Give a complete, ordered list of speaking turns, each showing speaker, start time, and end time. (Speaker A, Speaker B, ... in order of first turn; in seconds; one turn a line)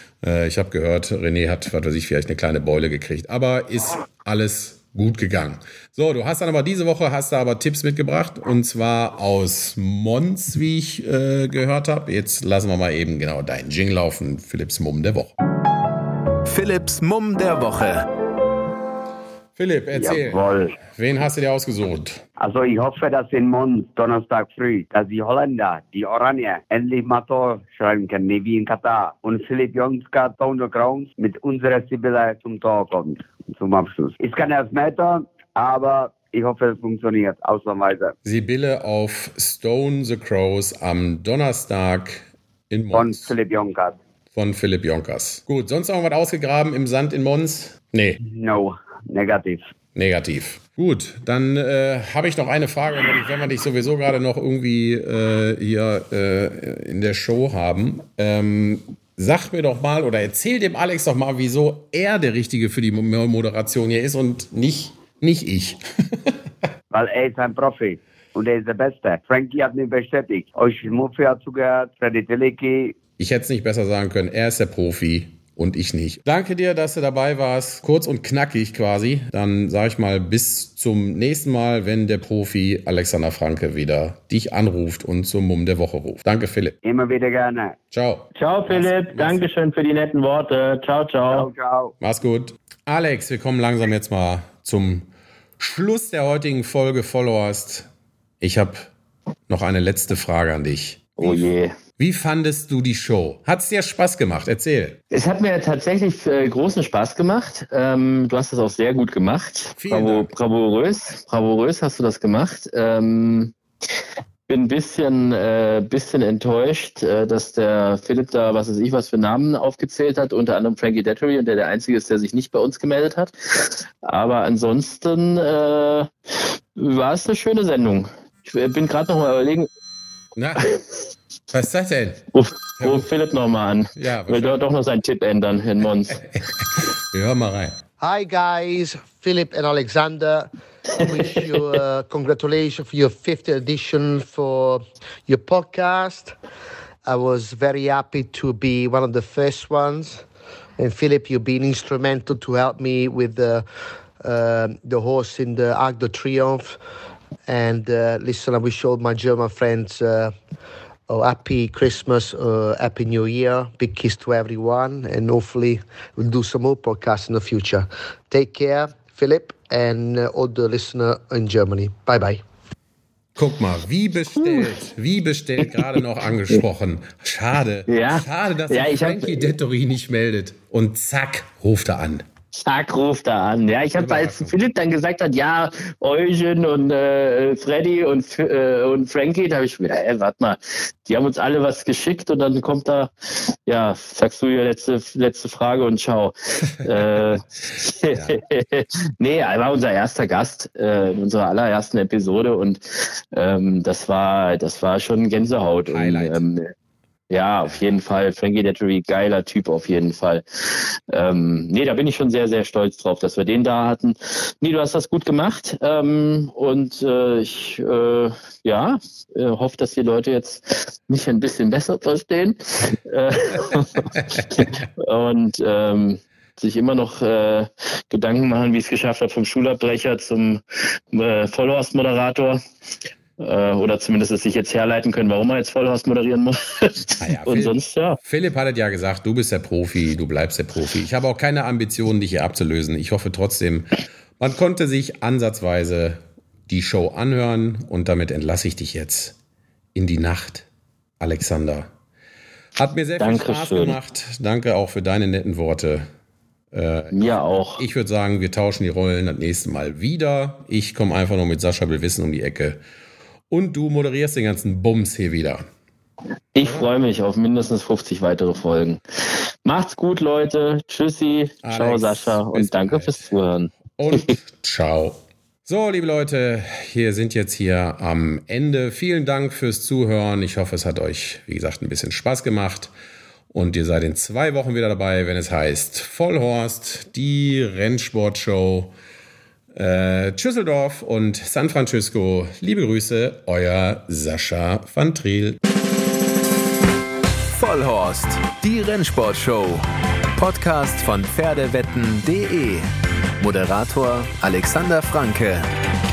Speaker A: 0.2-15.3
Speaker B: 16.5-18.0
Speaker A: 19.6-22.2
Speaker C: 19.9-20.7
Speaker C: 22.4-38.1
Speaker A: 38.2-43.3
Speaker C: 42.9-44.0
Speaker A: 44.3-48.2
Speaker C: 48.2-49.7
Speaker A: 49.9-66.3
Speaker C: 66.9-72.9
Speaker A: 73.2-86.8
Speaker C: 86.8-87.8
Speaker A: 87.9-89.5
Speaker D: 88.3-91.5
Speaker C: 91.3-91.9
Speaker A: 92.0-95.1
Speaker A: 95.6-97.9
Speaker A: 98.4-98.9
Speaker A: 99.5-105.0
Speaker D: 101.2-101.7
Speaker D: 105.1-113.5
Speaker A: 109.8-110.3
Speaker D: 114.5-126.1
Speaker D: 126.8-129.7
Speaker A: 130.3-130.7
Speaker A: 131.5-132.2
Speaker D: 132.3-136.2
Speaker A: 132.8-133.1
Speaker A: 133.9-134.6
Speaker A: 136.3-137.7
Speaker E: 138.0-146.3
Speaker E: 147.1-150.2
Speaker E: 150.8-153.6
Speaker E: 154.2-156.8
Speaker E: 157.5-160.3
Speaker E: 161.1-172.4
Speaker A: 173.3-182.2
Speaker D: 177.9-179.5
Speaker D: 182.5-193.1
Speaker A: 183.9-184.5
Speaker D: 193.7-206.7
Speaker A: 198.1-198.4
Speaker A: 205.9-206.4
Speaker D: 207.3-232.6
Speaker D: 233.4-238.2
Speaker A: 237.2-249.3
Speaker A: 249.9-250.7
Speaker A: 251.2-251.9
Speaker A: 252.8-256.1
Speaker D: 253.2-254.0
Speaker A: 256.7-262.8
Speaker D: 257.1-257.8
Speaker A: 263.5-265.6
Speaker D: 266.5-269.0
Speaker D: 269.6-274.3
Speaker A: 271.6-273.2
Speaker A: 274.0-282.9
Speaker A: 283.5-288.9
Speaker A: 289.7-295.6
Speaker B: 297.5-302.9
Speaker B: 303.4-305.7